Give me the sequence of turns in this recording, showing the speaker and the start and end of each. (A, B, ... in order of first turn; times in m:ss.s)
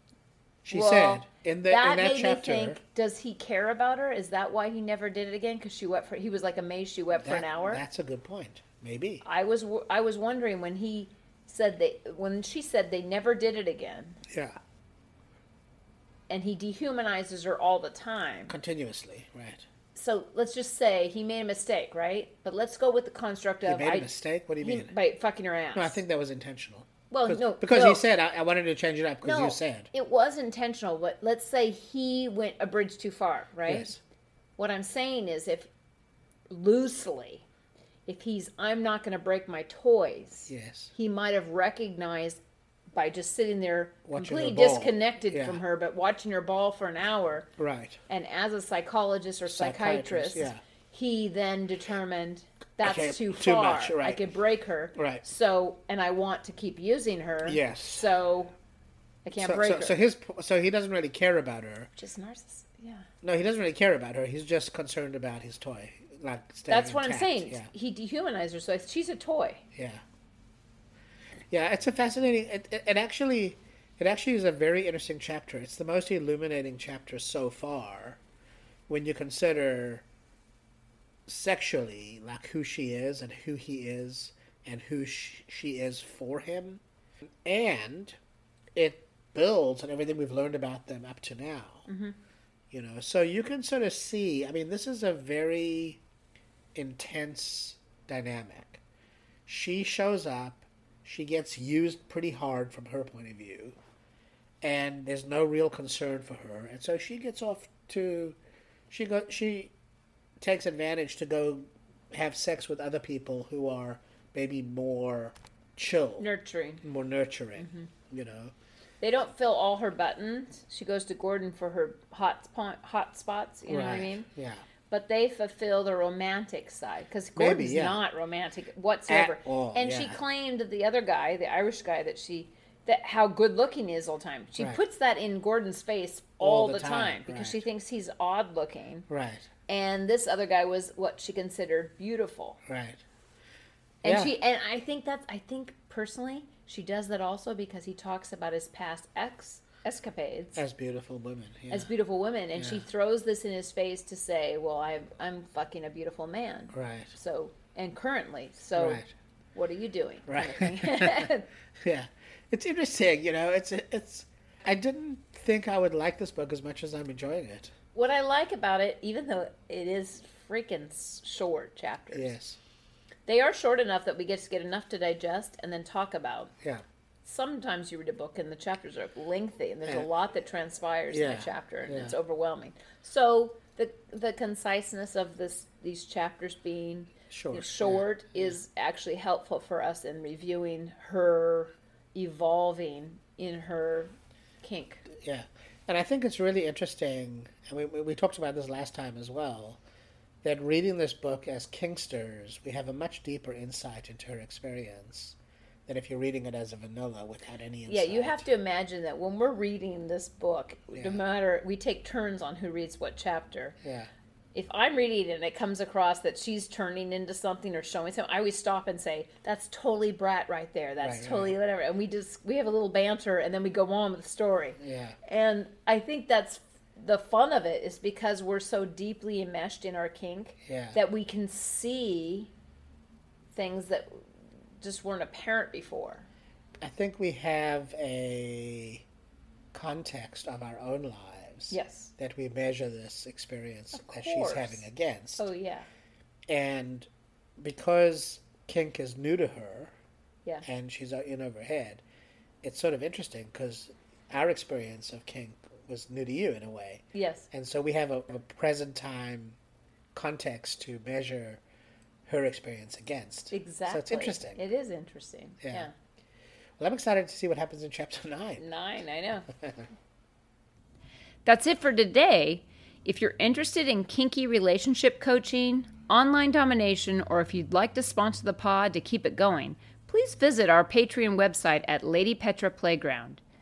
0:00.6-0:02.8 A
0:00.7-0:07.8 B
0:07.2-0:09.2 A
0:09.2-0:14.2 B
0:14.3-0:14.6 A
0:16.3-0:18.5 B
0:18.5-0:19.6 A
0:20.0-0:24.1 B
0:23.6-0:24.9 A
0:24.6-0:26.0 B
0:25.7-0:29.9 A
0:27.1-0:28.0 B
0:29.2-0:33.9 B
0:33.7-0:34.0 A
0:34.6-0:35.7 B
0:36.5-0:37.4 B
0:38.1-0:42.4 B
0:40.5-0:40.9 A
0:42.9-0:47.5 B
0:44.1-0:45.6 A
0:47.6-0:48.0 A
0:48.1-0:58.5 B
0:49.5-0:50.6 A
0:52.8-0:54.2 A
0:55.0-0:55.2 A
0:57.4-0:58.1 A
0:59.2-1:00.0 B
0:59.4-1:01.9 A
1:02.0-1:03.1 B
1:03.2-1:07.7 A
1:06.7-1:09.6 B
1:09.8-1:10.0 A
1:11.5-1:18.2 A
1:18.9-1:20.0 A
1:21.3-1:26.8 A
1:27.4-1:28.2 A
1:28.8-1:31.9 A
1:31.9-1:32.2 B
1:32.7-1:36.0 A
1:36.8-1:38.8 A
1:39.5-1:43.8 A
1:44.6-1:48.4 A
1:48.9-1:49.7 A
1:50.4-1:56.3 A
1:56.2-1:56.8 B
1:56.8-1:58.5 A
1:57.6-1:57.9 B
1:59.0-2:04.3 B
2:03.7-2:04.6 A
2:04.9-2:19.1 B
2:07.4-2:08.0 A
2:09.1-2:10.2 A
2:16.4-2:17.6 A
2:19.1-2:19.5 A
2:19.7-2:22.6 B
2:22.7-2:23.0 A
2:24.0-2:24.3 A
2:24.0-2:30.6 B
2:30.6-2:31.9 A
2:31.7-2:39.0 B
2:32.6-2:32.8 A
2:36.7-2:37.1 A
2:38.8-2:39.1 A
2:39.6-2:41.5 B
2:40.3-2:47.7 A
2:48.0-2:52.4 B
2:52.1-2:52.6 A
2:53.3-2:56.5 B
2:57.2-3:15.0 B
3:01.1-3:02.2 A
3:07.3-3:08.6 A
3:15.1-3:19.8 A
3:20.4-3:25.4 A
3:25.9-3:28.5 A
3:27.9-3:33.8 B
3:30.9-3:31.2 A
3:33.8-3:34.1 A
3:34.5-3:52.5 B
3:41.0-3:41.6 A
3:44.8-3:45.2 A
3:50.7-3:51.0 A
3:53.5-3:54.2 B
3:54.8-3:56.3 B
3:56.8-3:59.0 A
3:59.7-4:05.5 A
4:01.7-4:02.1 B
4:03.9-4:04.9 B
4:05.4-4:05.9 B
4:06.5-4:09.9 A
4:10.6-4:12.0 A
4:12.6-4:19.6 A
4:17.1-4:17.5 B
4:20.1-4:21.6 A
4:22.3-4:24.6 A
4:23.5-4:25.9 B
4:25.6-4:25.9 A
4:26.8-4:28.6 A
4:28.6-4:29.5 B
4:29.5-4:29.9 A
4:31.4-4:43.4 B